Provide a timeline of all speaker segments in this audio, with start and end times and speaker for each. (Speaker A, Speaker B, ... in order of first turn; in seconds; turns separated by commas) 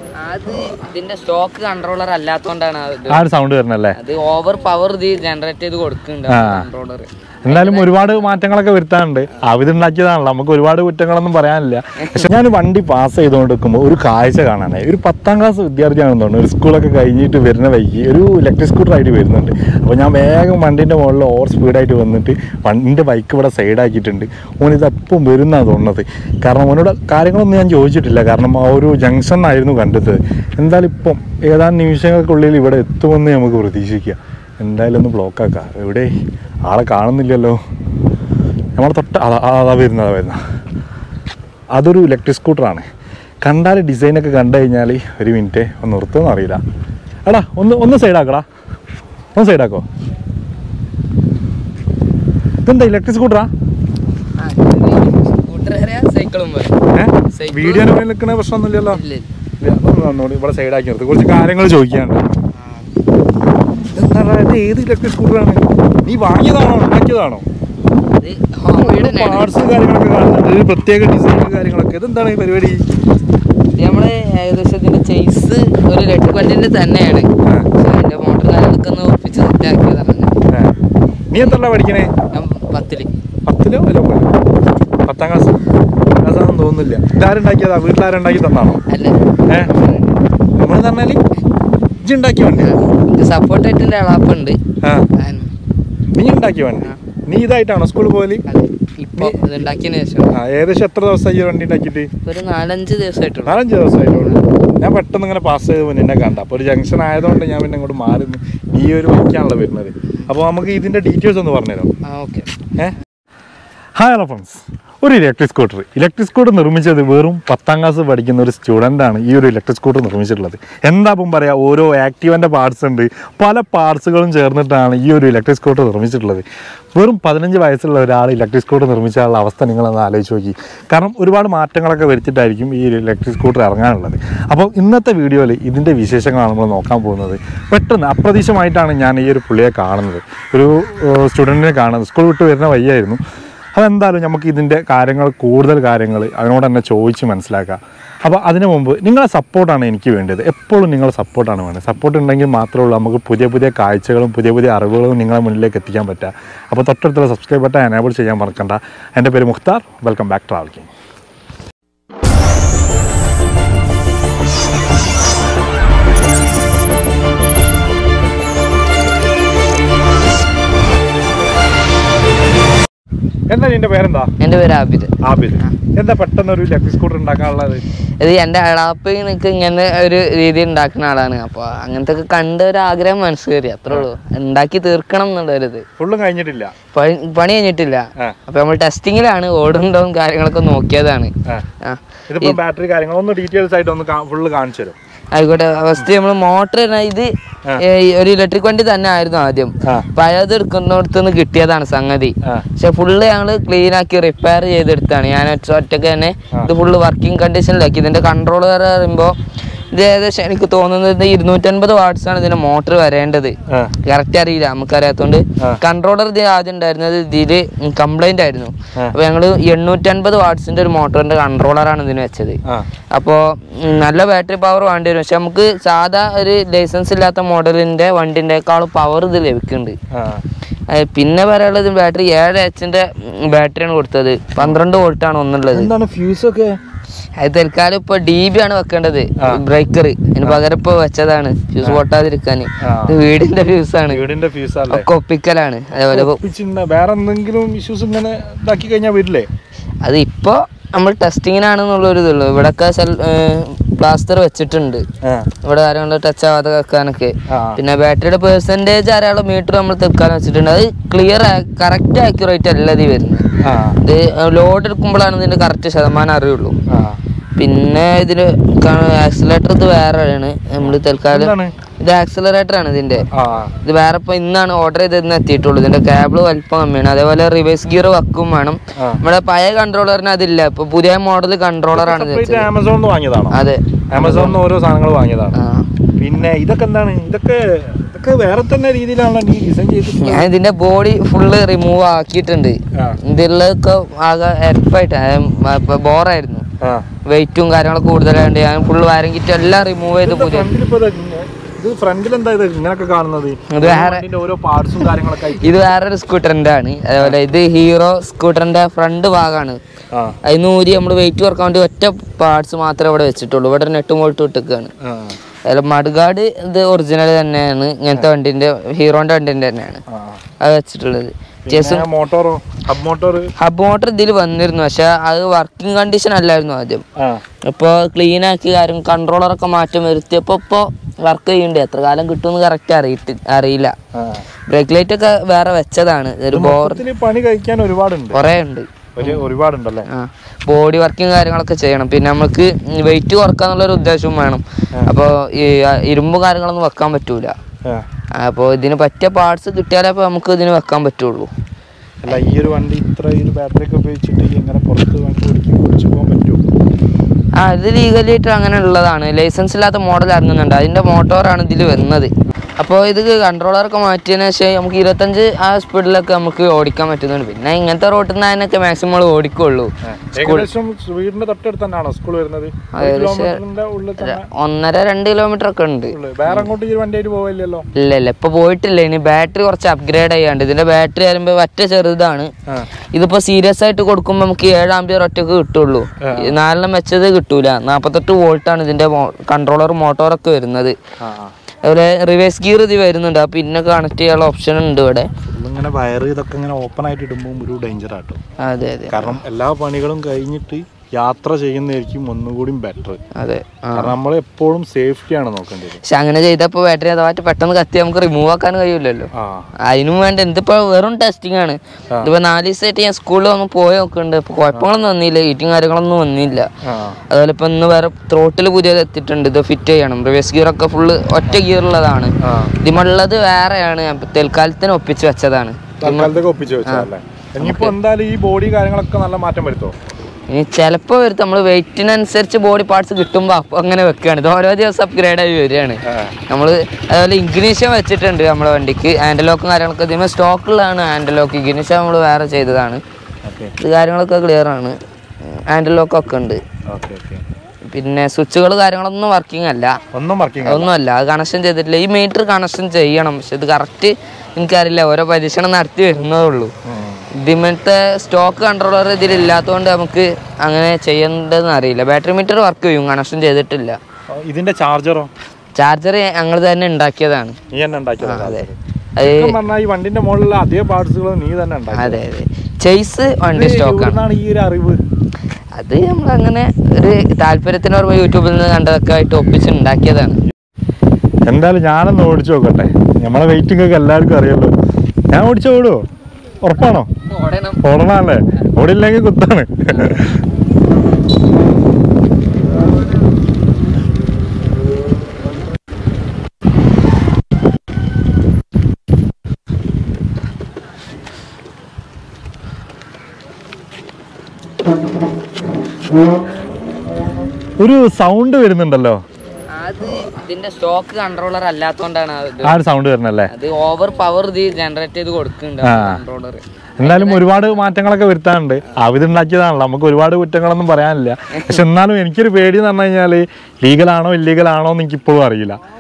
Speaker A: 0.2-3.3, Speaker B: 3.1-4.0, Speaker A: 4.0-8.4, Speaker B: 6.3-6.7, Speaker B: 7.5-36.1, Speaker B: 36.7-37.6, Speaker B: 38.8-40.4, Speaker B: 41.8-42.9, Speaker B: 43.4-46.6, Speaker B: 47.3-48.5, Speaker B: 49.4-49.9, Speaker B: 52.6-53.5, Speaker A: 54.4-57.9, Speaker B: 56.9-59.0, Speaker A: 58.9-59.3, Speaker B: 59.6-62.3, Speaker A: 62.6-62.9, Speaker B: 63.9-67.4, Speaker A: 68.2-69.7, Speaker B: 68.7-72.8, Speaker A: 73.8-80.3, Speaker B: 77.4-77.7, Speaker B: 80.5-80.8, Speaker B: 81.3-82.1, Speaker A: 82.3-83.1, Speaker B: 83.5-84.3, Speaker B: 85.1-85.6, Speaker B: 86.2-88.8, Speaker A: 88.9-90.2, Speaker B: 89.5-89.7, Speaker B: 90.6-91.2, Speaker B: 92.0-92.8, Speaker A: 92.6-94.6, Speaker B: 94.8-95.1, Speaker A: 95.1-95.5, Speaker B: 96.1-98.4, Speaker A: 98.5-100.3, Speaker B: 100.3-102.1, Speaker A: 102.3-104.5, Speaker B: 103.5-111.9, Speaker A: 112.0-112.5, Speaker B: 114.0-143.2, Speaker B: 143.8-160.9, Speaker B: 173.5-174.3, Speaker A: 174.4-175.7, Speaker B: 175.2-177.8, Speaker A: 178.2-185.8, Speaker B: 186.0-186.8, Speaker A: 186.9-192.6, Speaker B: 192.3-195.0, Speaker A: 195.3-209.4, Speaker B: 199.8-200.1, Speaker A: 209.9-222.6, Speaker A: 223.1-230.0, Speaker B: 230.1-230.4, Speaker A: 230.9-235.9, Speaker B: 235.7-236.8, Speaker A: 237.4-244.2, Speaker B: 242.8-243.2, Speaker B: 244.1-245.1, Speaker A: 244.9-246.4, Speaker B: 246.1-249.5, Speaker A: 250.0-255.1, Speaker B: 255.2-255.5, Speaker A: 255.6-263.4, Speaker B: 257.5-257.8, Speaker B: 263.6-264.0, Speaker A: 264.0-266.8, Speaker B: 266.9-267.2, Speaker A: 267.6-273.3, Speaker B: 270.8-271.8, Speaker B: 273.3-273.7, Speaker A: 273.8-282.7, Speaker B: 279.0-279.2, Speaker B: 281.9-283.6, Speaker A: 283.5-284.6, Speaker B: 284.1-285.6, Speaker A: 285.5-285.9, Speaker B: 286.2-290.5, Speaker A: 290.1-296.6, Speaker A: 297.3-300.7, Speaker B: 300.2-305.8, Speaker A: 303.7-304.2, Speaker A: 305.0-309.8, Speaker A: 310.4-314.9, Speaker B: 315.0-315.4, Speaker A: 315.7-320.0, Speaker B: 320.1-320.4, Speaker A: 320.6-322.1, Speaker B: 321.7-323.5, Speaker A: 323.6-327.0, Speaker A: 327.6-333.9, Speaker B: 334.1-334.4, Speaker A: 334.7-337.0, Speaker B: 336.5-338.4, Speaker A: 338.3-339.4, Speaker B: 339.1-340.1, Speaker A: 340.1-347.5, Speaker A: 348.4-351.5, Speaker B: 352.2-356.6, Speaker A: 357.6-370.7, Speaker B: 370.0-374.5, Speaker A: 372.9-373.6, Speaker A: 374.2-376.7, Speaker B: 376.1-377.9, Speaker A: 378.0-382.5, Speaker A: 383.1-391.0, Speaker B: 386.2-386.6, Speaker B: 391.2-391.5, Speaker A: 391.8-395.3, Speaker B: 395.5-398.4, Speaker A: 398.6-399.4, Speaker B: 399.1-403.2, Speaker A: 403.4-404.2, Speaker B: 403.9-406.0, Speaker A: 406.0-409.3, Speaker B: 409.4-409.7, Speaker A: 409.9-416.7, Speaker B: 416.8-417.2, Speaker A: 417.3-427.1, Speaker B: 422.4-422.8, Speaker B: 426.0-429.9, Speaker A: 427.6-427.9, Speaker A: 430.5-443.0, Speaker B: 436.1-436.4, Speaker B: 443.5-443.7, Speaker A: 443.8-446.6, Speaker B: 446.9-447.4, Speaker A: 447.9-450.0, Speaker B: 450.1-450.9, Speaker A: 450.6-456.7, Speaker B: 456.9-457.3, Speaker A: 457.4-464.0, Speaker B: 464.3-465.3, Speaker A: 465.8-467.6, Speaker B: 467.7-472.2, Speaker A: 468.2-469.6, Speaker A: 471.9-474.2, Speaker B: 473.5-475.0, Speaker A: 475.8-480.4, Speaker B: 481.5-484.7, Speaker B: 485.3-486.0, Speaker B: 486.6-487.1, Speaker A: 487.3-487.8, Speaker B: 487.8-490.4, Speaker A: 489.9-490.2, Speaker B: 507.8-509.2, Speaker A: 509.7-512.8, Speaker B: 512.6-513.5, Speaker A: 513.5-517.6, Speaker B: 515.8-516.2, Speaker B: 517.0-525.8, Speaker A: 521.5-521.8